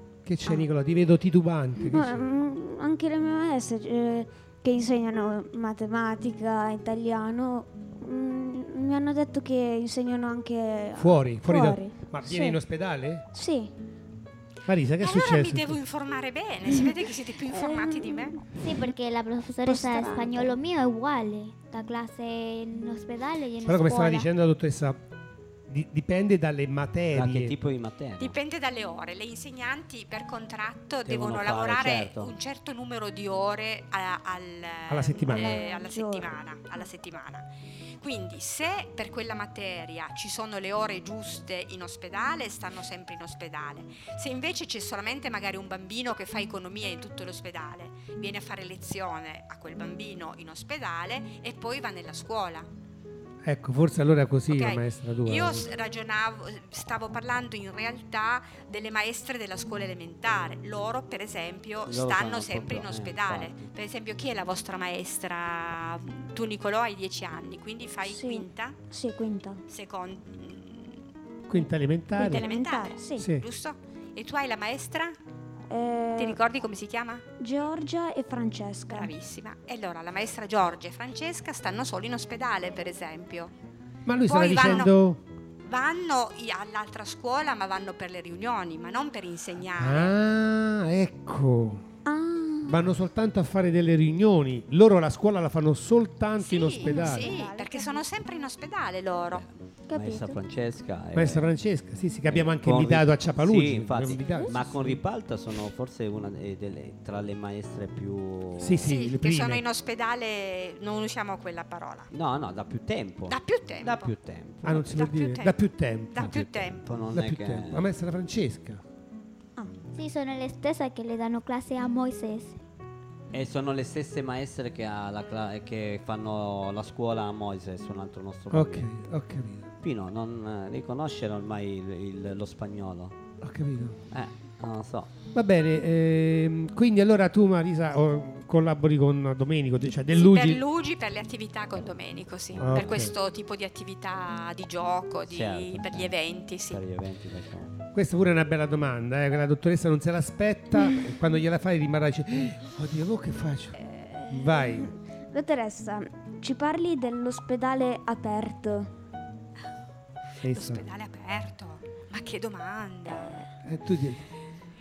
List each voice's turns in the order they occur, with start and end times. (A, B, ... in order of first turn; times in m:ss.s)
0:00.2-0:02.2 A
0:01.9-0:12.6 B
0:11.0-0:13.2 A
0:13.3-0:13.7 B
0:14.6-0:15.8 A
0:15.0-0:18.4 C
0:17.5-0:18.4 B
0:18.6-0:24.3 D
0:19.6-0:20.5 B
0:23.6-0:25.0 A
0:25.7-0:27.5 A
0:27.1-0:28.4 E
0:28.2-0:37.5 C
0:31.0-0:32.4 E
0:34.9-0:35.6 A
0:35.2-0:36.4 B
0:38.0-0:52.7 C
0:53.4-0:55.7 A
0:54.5-1:08.8 C
1:01.8-1:03.7 E
1:08.0-1:09.6 B
1:09.7-1:11.0 C
1:11.5-1:12.5 A
1:12.2-1:13.2 B
1:12.2-1:15.2 C
1:13.2-1:13.4 A
1:15.7-1:16.4 B
1:16.2-1:17.2 C
1:17.4-1:19.1 B
1:18.9-1:23.5 C
1:24.0-1:25.2 A
1:24.3-1:24.9 C
1:25.6-1:30.1 C
1:29.8-1:31.8 A
1:32.0-1:32.8 B
1:32.7-1:37.3 A
1:36.4-1:39.4 C
1:36.8-1:38.0 B
1:39.3-1:41.5 E
1:39.9-1:40.4 B
1:41.1-1:45.0 A
1:42.2-1:48.9 E
1:44.2-1:44.5 B
1:48.6-1:49.6 A
1:48.8-1:52.1 C
1:52.1-1:54.8 E
1:53.3-1:54.1 C
1:54.6-1:58.8 A
1:54.7-1:55.6 C
1:56.1-1:56.9 C
1:56.2-1:57.9 E
1:59.9-2:02.6 D
2:03.3-2:08.9 E
2:08.5-2:09.7 A
2:09.8-2:13.2 E
2:13.4-2:14.0 A
2:14.1-2:15.1 E
2:15.3-2:20.6 A
2:20.1-2:26.8 C
2:22.5-2:23.1 E
2:22.6-2:23.1 A
2:25.2-2:27.8 E
2:27.9-2:33.8 A
2:33.9-2:38.9 B
2:34.3-2:34.9 A
2:40.4-2:40.8 A
2:40.4-2:43.4 C
2:43.6-2:44.2 A